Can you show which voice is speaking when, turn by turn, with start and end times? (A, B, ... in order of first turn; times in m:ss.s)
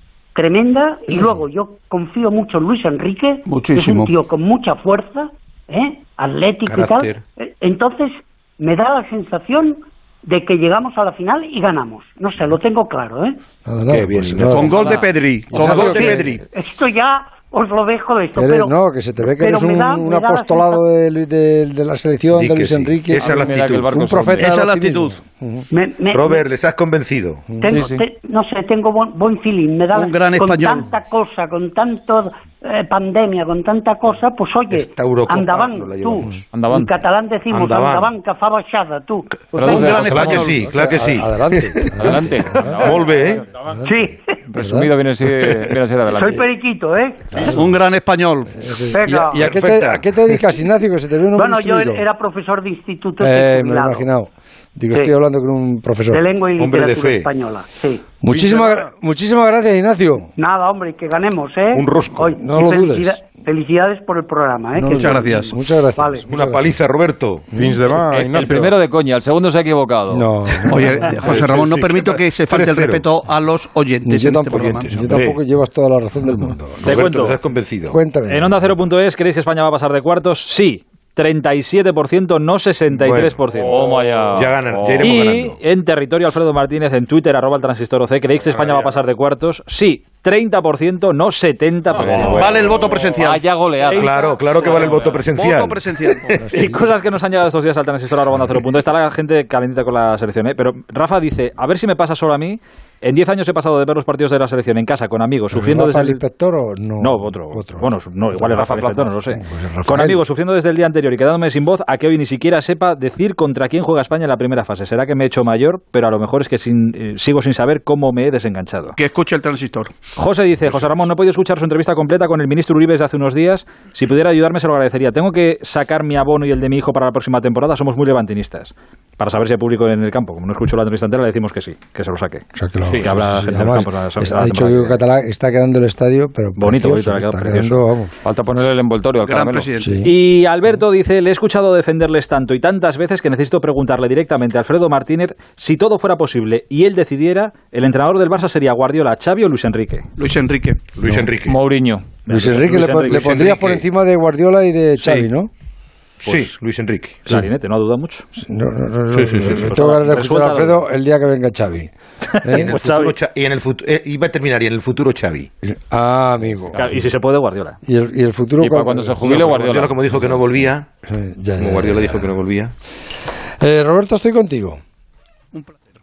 0:00.4-0:13.4 A
0:03.5-0:04.1 B
0:06.6-0:07.2 C
0:13.6-0:15.0 D
0:13.9-0:15.1 C
0:14.5-0:16.4 B
0:14.8-0:15.1 E
0:15.5-0:16.3 D
0:15.6-0:16.0 E
0:15.8-0:18.8 A
0:18.4-0:25.7 D
0:19.4-0:20.8 A
0:22.3-0:24.0 C
0:23.2-0:24.5 E
0:24.3-0:25.2 B
0:25.7-0:26.4 A
0:26.1-0:27.4 C
0:27.5-0:27.8 D
0:27.6-0:39.6 A
0:27.6-0:28.0 E
0:29.9-0:30.9 B
0:34.7-0:36.5 C
0:36.5-0:36.9 E
0:37.5-0:38.1 C
0:39.5-0:42.2 C
0:39.5-0:40.7 B
0:39.6-0:40.4 E
0:40.6-0:43.0 D
0:42.0-0:43.4 E
0:42.8-0:43.4 C
0:43.0-0:43.5 F
0:43.6-0:44.9 D
0:43.8-0:44.2 A
0:44.5-0:46.4 E
0:46.1-0:47.6 A
0:47.3-0:47.8 D
0:47.5-0:48.6 B
0:48.6-0:52.0 D
0:48.9-0:49.6 A
0:49.4-0:50.0 C
0:51.4-0:54.1 A
0:53.2-0:56.2 D
0:56.1-0:58.0 A
0:56.6-0:57.3 C
0:58.2-1:00.3 D
0:58.3-0:58.9 F
1:00.4-1:06.3 A
1:01.7-1:02.3 C
1:02.3-1:03.2 D
1:04.8-1:06.7 D
1:04.9-1:05.6 B
1:06.3-1:07.5 C
1:07.5-1:07.9 D
1:07.5-1:08.8 F
1:08.1-1:10.2 E
1:10.1-1:11.5 D
1:10.7-1:15.4 B
1:11.2-1:13.1 C
1:14.0-1:17.1 D
1:16.8-1:18.0 C
1:16.8-1:17.4 G
1:17.9-1:18.6 D
1:18.3-1:23.8 G
1:22.9-1:25.6 C
1:23.6-1:25.1 E
1:25.0-1:32.5 G
1:28.5-1:28.9 F
1:32.0-1:33.0 C
1:32.3-1:33.5 B
1:33.2-1:35.3 E
1:33.8-1:34.8 G
1:33.9-1:36.7 C
1:34.7-1:36.3 B
1:36.4-1:37.0 D
1:36.5-1:46.2 G
1:45.5-1:50.2 D
1:47.0-1:59.0 G
1:59.0-1:59.9 B
2:00.1-2:12.4 G
2:00.7-2:01.0 B
2:12.6-2:18.1 D
2:12.9-2:13.2 C
2:13.0-2:15.0 G
2:16.6-2:17.8 G
2:18.2-2:19.7 E
2:19.2-2:20.1 B
2:19.8-2:20.1 D
2:20.0-2:30.1 G
2:30.2-2:30.9 B
2:31.0-2:31.6 C
2:31.0-2:31.3 D
2:31.4-2:32.5 E
2:32.2-2:33.8 G
2:32.3-2:35.5 D
2:32.8-2:33.4 B
2:33.3-2:33.7 C
2:35.0-2:35.3 B
2:36.2-2:37.2 C
2:37.2-2:38.2 G
2:38.4-2:41.9 D
2:39.1-2:39.6 C
2:39.4-2:40.8 G
2:42.4-2:42.8 D
2:42.4-2:43.2 G
2:42.6-2:45.5 C
2:45.6-2:47.1 D
2:46.4-2:47.0 E
2:46.8-2:47.8 G
2:47.8-2:49.5 D
2:48.6-2:50.6 E
2:49.2-2:50.9 C
2:51.1-2:52.3 D
2:51.6-2:52.7 C
2:53.6-2:54.8 D